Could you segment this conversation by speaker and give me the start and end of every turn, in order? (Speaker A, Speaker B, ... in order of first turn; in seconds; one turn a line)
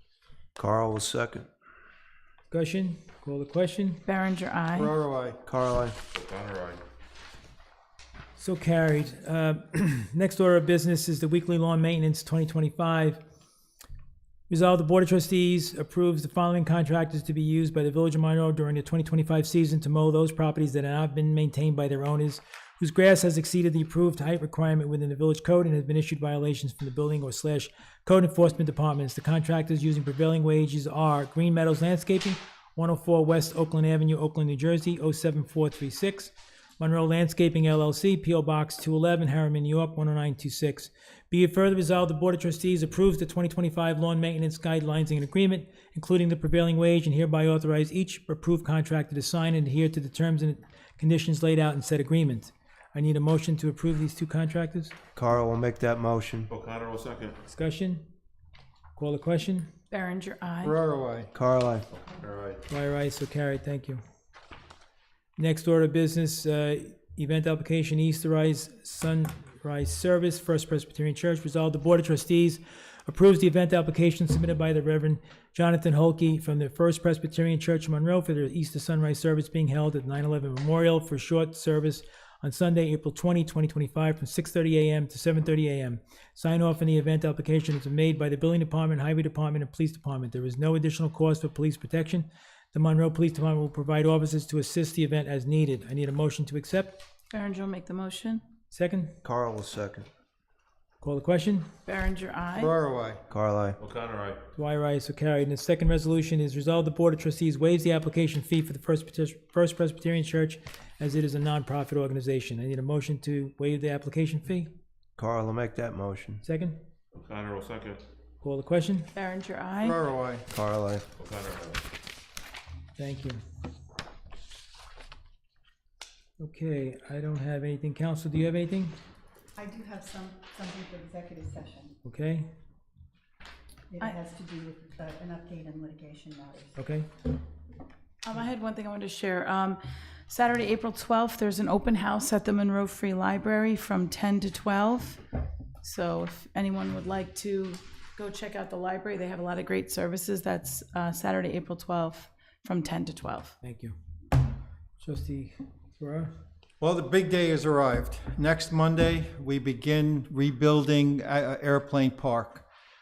Speaker A: 0.6-1.5
Speaker B: 2.5-4.0
Speaker C: 4.0-4.9
Speaker D: 4.7-5.4
Speaker A: 5.5-6.0
Speaker E: 6.1-6.8
Speaker B: 8.4-13.2
Speaker B: 14.5-54.9
Speaker A: 55.1-56.5
Speaker E: 56.5-57.4
Speaker B: 57.5-58.1
Speaker B: 59.0-59.7
Speaker C: 59.9-60.7
Speaker D: 60.6-61.3
Speaker A: 61.3-61.9
Speaker E: 62.1-62.6
Speaker B: 62.7-64.0
Speaker B: 65.4-97.0
Speaker C: 97.3-98.4
Speaker B: 98.7-99.1
Speaker A: 99.2-100.1
Speaker B: 101.0-101.7
Speaker C: 101.8-102.7
Speaker D: 102.5-103.2
Speaker A: 103.3-103.8
Speaker E: 103.8-104.4
Speaker B: 104.6-114.7
Speaker A: 115.2-116.4
Speaker B: 116.4-116.8
Speaker E: 117.1-118.0
Speaker B: 118.4-119.1
Speaker C: 119.1-120.0
Speaker D: 119.8-120.5
Speaker A: 120.5-121.1
Speaker E: 121.2-121.8
Speaker B: 123.0-123.4
Speaker B: 126.4-128.9
Speaker F: 129.6-131.9
Speaker B: 132.0-132.5
Speaker F: 133.9-136.8
Speaker B: 136.7-137.1
Speaker C: 138.2-145.2
Speaker C: 145.8-153.5
Speaker B: 153.6-154.0
Speaker B: 155.0-156.3
Speaker D: 156.8-162.6